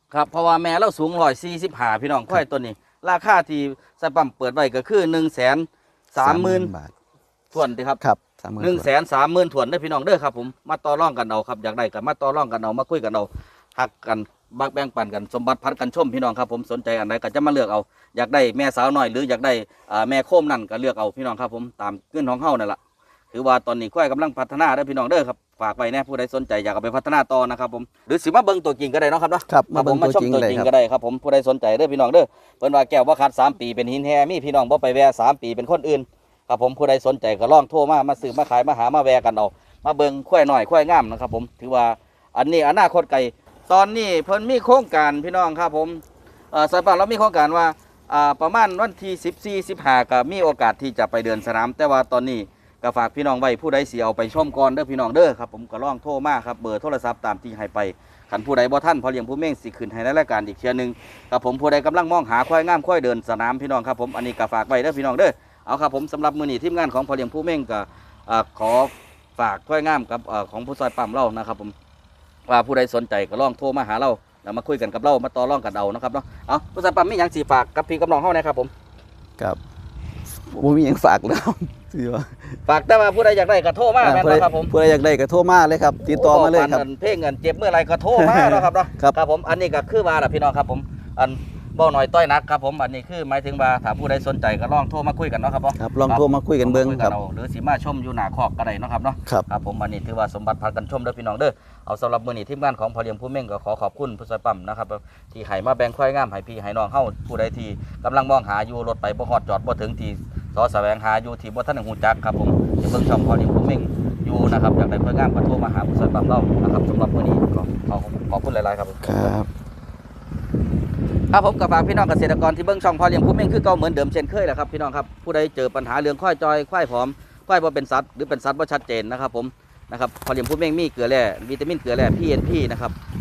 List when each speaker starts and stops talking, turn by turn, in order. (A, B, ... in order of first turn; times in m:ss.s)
0:00.1-0:06.7 A
0:06.2-0:06.9 B
0:07.5-0:08.0 A
0:08.0-0:08.9 B
0:08.6-0:22.8 A
0:23.3-1:11.7 A
0:29.5-0:30.7 B
1:12.5-1:18.7 A
1:20.4-1:22.6 B
1:22.6-1:24.7 A
1:24.0-1:26.8 B
1:26.0-1:59.3 A
1:28.2-1:29.2 B
1:35.8-1:37.1 B
1:59.0-1:59.5 B
2:01.3-2:12.9 A